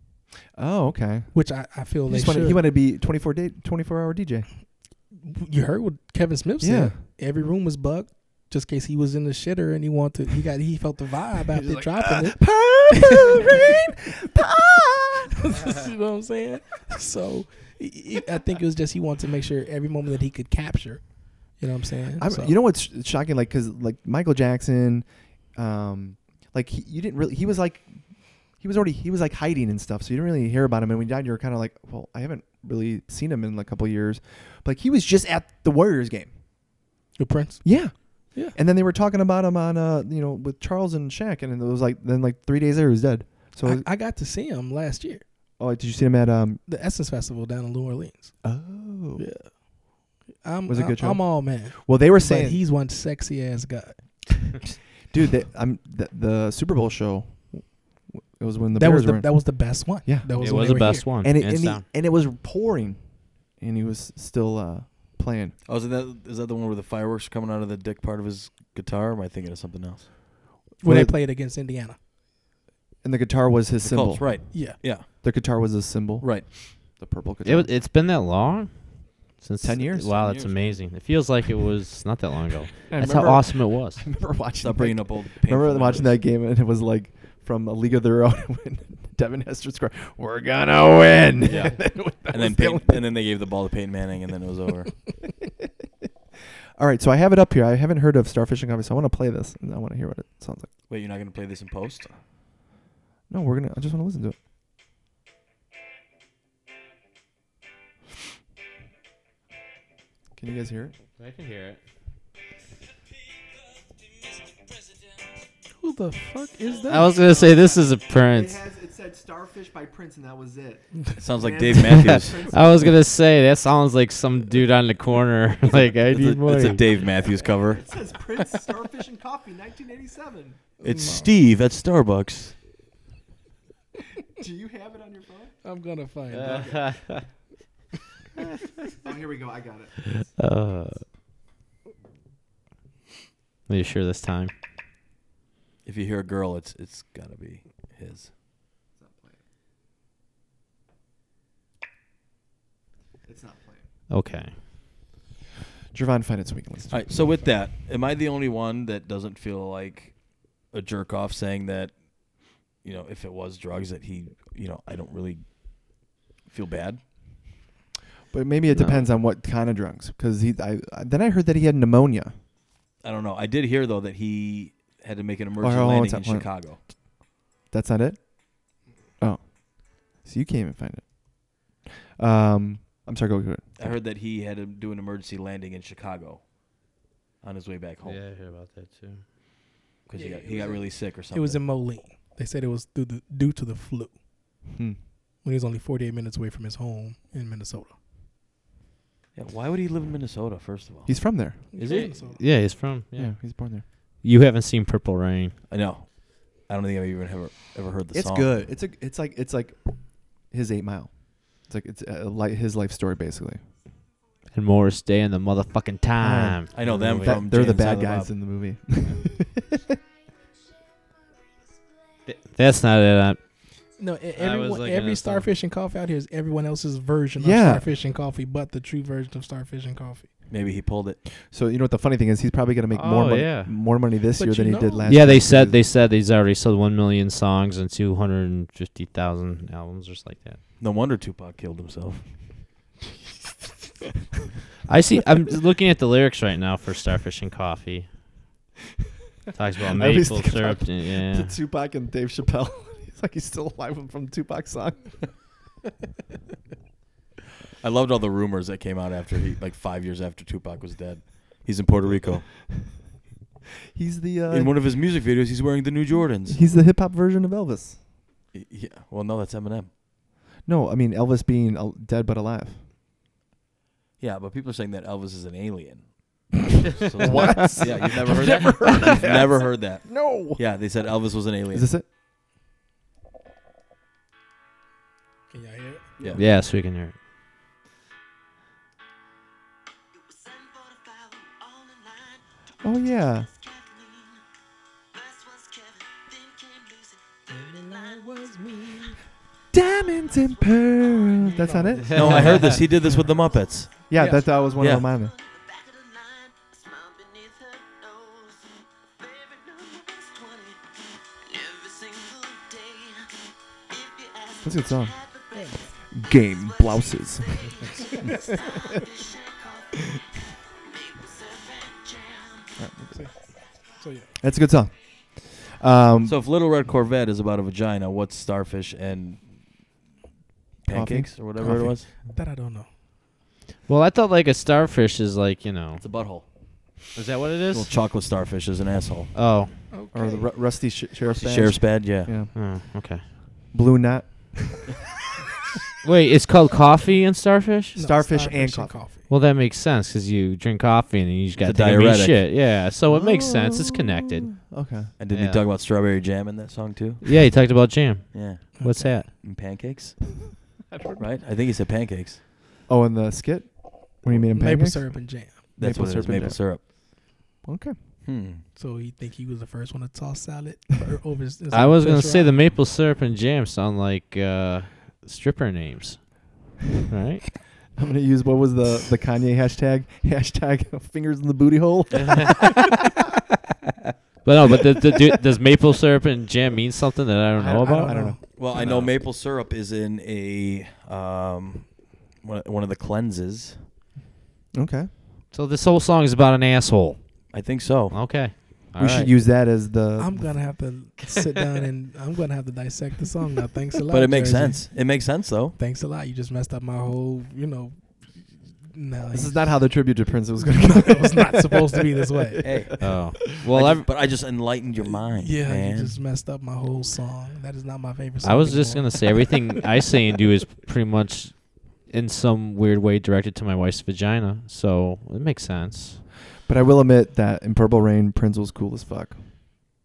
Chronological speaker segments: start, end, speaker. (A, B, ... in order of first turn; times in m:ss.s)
0:00.6-0:01.4 A
0:01.3-0:02.6 B
0:02.1-0:04.5 A
0:05.1-0:13.7 B
0:06.6-0:07.0 A
0:11.5-0:15.7 A
0:15.4-0:22.5 B
0:22.2-0:28.0 A
0:28.6-0:36.3 A
0:37.2-0:37.7 B
0:37.6-0:43.9 A
0:43.6-0:45.2 B
0:45.6-0:46.6 A
0:46.7-0:48.4 B
0:48.4-0:49.2 A
0:49.2-0:54.6 B
0:50.7-0:52.6 A
0:55.1-1:05.6 A
0:58.8-1:01.1 B
1:00.4-1:01.8 C
1:05.6-1:10.1 D
1:10.8-1:12.0 B
1:10.8-1:11.1 A
1:13.0-1:17.7 A
1:13.8-1:15.1 D
1:16.2-1:16.5 D
1:17.4-1:24.0 C
1:19.6-1:20.2 A
1:20.2-1:20.8 D
1:22.9-1:33.1 A
1:24.6-1:26.2 D
1:31.4-1:34.9 D
1:36.8-1:40.7 A
1:40.9-1:42.1 D
1:43.3-1:44.4 A
1:50.4-1:50.9 A
1:51.2-1:51.8 C
1:55.8-1:57.2 B
1:56.9-1:58.6 C
1:57.1-2:03.0 A
2:01.2-2:02.5 D
2:01.9-2:06.8 C
2:05.7-2:07.8 D
2:07.7-2:10.6 A
2:10.8-2:11.3 B
2:10.8-2:12.6 D
2:14.4-2:15.5 A
2:15.6-2:16.9 B
2:16.4-2:17.2 C
2:16.4-2:17.1 A
2:19.0-2:20.0 A
2:20.4-2:21.0 C
2:23.7-2:24.5 C
2:25.8-2:28.3 D
2:29.0-2:29.4 A
2:33.3-2:33.8 A
2:34.1-2:34.6 C
2:35.9-2:37.1 A
2:36.9-2:47.0 D
2:48.3-2:52.3 A
2:53.0-2:56.8 D
2:55.6-2:56.5 A
2:57.7-2:58.4 A
2:59.2-3:03.9 A
3:03.8-3:06.7 D
3:07.4-3:08.2 D
3:08.0-3:09.2 C
3:10.1-3:11.6 D
3:10.1-3:14.2 B
3:14.7-3:15.0 A
3:15.4-3:17.9 B
3:19.4-3:21.2 D
3:21.1-3:21.6 A
3:21.7-3:22.4 B
3:21.8-3:22.1 D
3:21.8-3:23.4 C
3:23.2-3:23.8 A
3:24.2-3:25.6 C
3:25.7-3:28.5 D
3:28.1-3:33.6 A
3:34.5-3:37.4 C
3:36.2-3:39.9 A
3:36.7-3:38.3 D
3:42.3-3:43.4 C
3:44.0-3:50.3 B
3:44.4-3:45.5 C
3:47.4-3:47.9 A
3:50.5-3:51.2 D
3:51.4-3:55.8 A
3:52.9-3:53.7 C
3:54.4-3:55.1 B
3:55.1-4:00.6 C
4:00.8-4:02.2 D
4:04.9-4:08.1 C
4:09.5-4:11.5 C
4:09.9-4:15.3 A
4:17.8-4:22.5 D
4:23.9-4:24.7 A
4:24.5-4:26.6 D
4:26.5-4:28.0 A
4:28.5-4:29.9 D
4:30.6-4:32.8 A
4:34.2-4:41.9 D
4:37.2-4:40.6 A
4:37.3-4:37.9 C
4:41.7-4:42.0 A
4:45.5-4:46.1 B
4:46.4-4:47.2 C
4:52.8-4:53.5 A
4:57.5-4:59.2 B
4:59.7-5:02.8 A
5:01.5-5:02.7 B
5:02.1-5:02.8 C
5:02.1-5:04.1 D
5:04.1-5:05.4 A
5:04.1-5:04.4 B
5:04.8-5:05.1 D
5:14.6-5:15.4 A
5:15.5-5:15.9 B
5:16.1-5:17.9 A
5:18.0-5:18.5 B
5:22.8-5:23.4 A
5:23.1-5:24.3 B
5:24.4-5:26.4 A
5:26.2-5:29.5 D
5:30.8-5:32.1 D
5:30.9-5:32.0 A
5:32.2-5:32.9 B
5:33.9-5:36.0 C
5:36.0-5:36.5 D
5:37.1-5:37.9 C
5:37.7-5:39.3 D
5:39.4-5:39.7 C
5:39.9-5:40.5 B
5:40.1-5:42.5 A
5:41.3-5:42.3 D
5:42.5-5:43.2 C
5:43.7-5:44.9 A
5:46.0-5:48.0 C
5:47.9-5:49.3 B
5:48.0-5:49.0 A
5:49.3-5:54.5 C
5:51.6-5:52.4 D
5:53.1-5:55.1 A
5:55.2-5:57.4 D
5:55.3-5:55.6 C
5:57.2-5:59.3 C
5:58.3-6:00.4 D
5:58.8-5:59.2 B
6:00.9-6:01.2 A
6:01.2-6:02.4 D
6:02.9-6:06.9 A
6:04.5-6:05.6 B
6:05.8-6:06.8 D
6:07.6-6:08.0 A
6:08.2-6:08.6 D
6:08.8-6:12.5 B
6:11.7-6:17.6 C
6:17.9-6:23.0 A
6:24.4-6:29.1 C
6:27.6-6:28.6 A
6:27.6-6:28.4 B
6:28.6-6:33.8 D
6:34.7-6:35.1 A
6:35.5-6:39.3 C
6:37.5-6:38.6 D
6:39.0-6:40.7 A
6:40.2-6:52.7 B
6:44.1-6:45.8 D
6:49.3-6:51.8 A
6:52.5-6:53.2 A
6:52.6-6:56.2 D
6:53.0-6:54.1 C
6:55.1-6:59.7 B
6:58.4-7:06.2 C
7:06.6-7:09.4 A